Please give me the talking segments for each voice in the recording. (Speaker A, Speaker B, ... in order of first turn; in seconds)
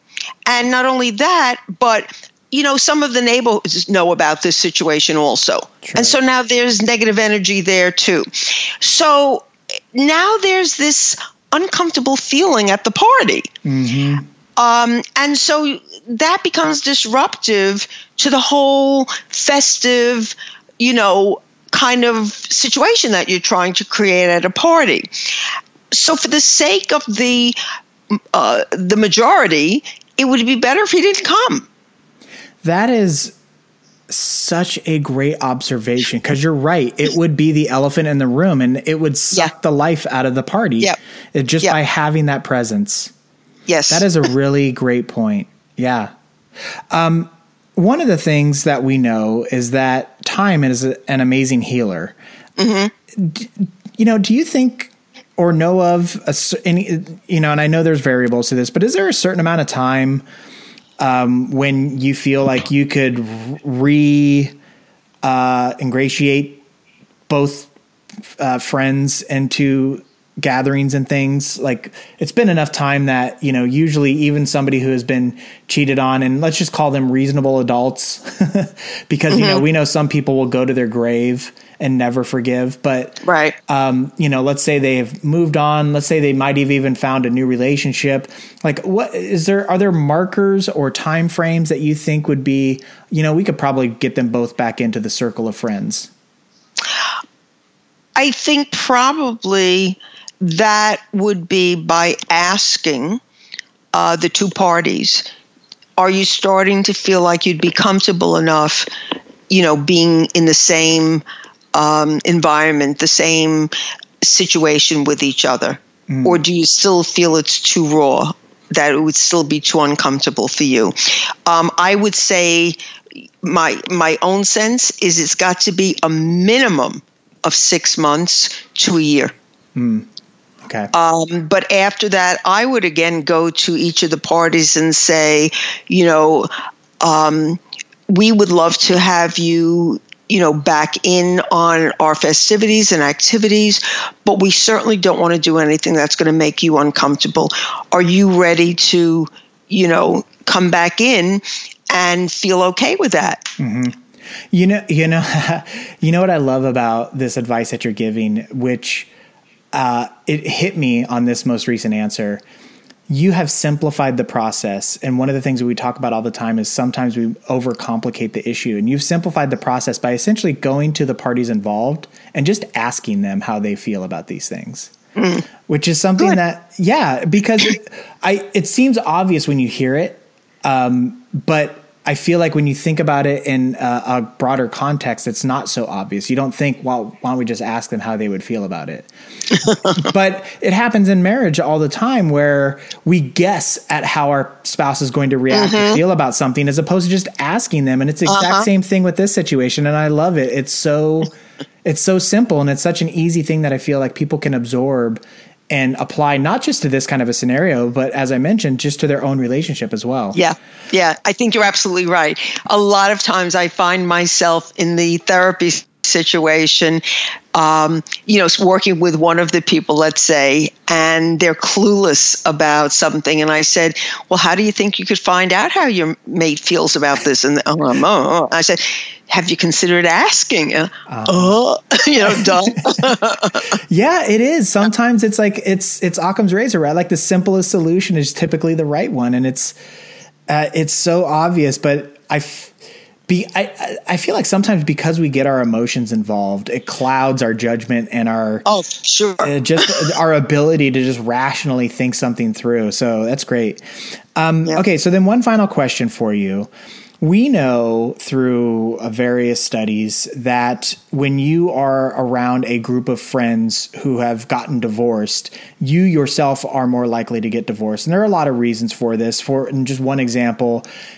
Speaker A: 0.5-13.5, 14.6-25.1, 25.9-27.6, 28.3-31.7, 43.7-44.1, 52.6-52.9, 79.3-79.6, 83.2-83.6, 98.2-103.2, 103.9-105.2, 106.0-108.9, 109.5-122.8, 123.4-129.3, 130.9-136.5, 137.0-153.5, 175.2-175.5, 189.5-189.9, 195.5-196.0, 198.3-198.7, 210.3-217.0, 217.5-233.7, 248.7-250.0
Speaker B: 5.8-6.2, 13.7-14.2, 32.6-33.4, 34.1-43.1, 43.9-46.1, 46.9-52.1, 53.1-60.2, 61.0-64.6, 65.2-66.6, 67.3-67.7, 68.4-96.1, 116.1-116.4, 129.8-130.1, 130.6-130.9, 153.6-159.1, 159.7-162.4, 163.1-174.9, 175.7-189.1, 189.9-201.3, 201.8-210.4, 231.1-231.6, 232.3-233.1, 233.8-239.8, 240.5-242.8, 243.3-248.7, 249.4-253.8, 254.4-256.7, 257.2-270.9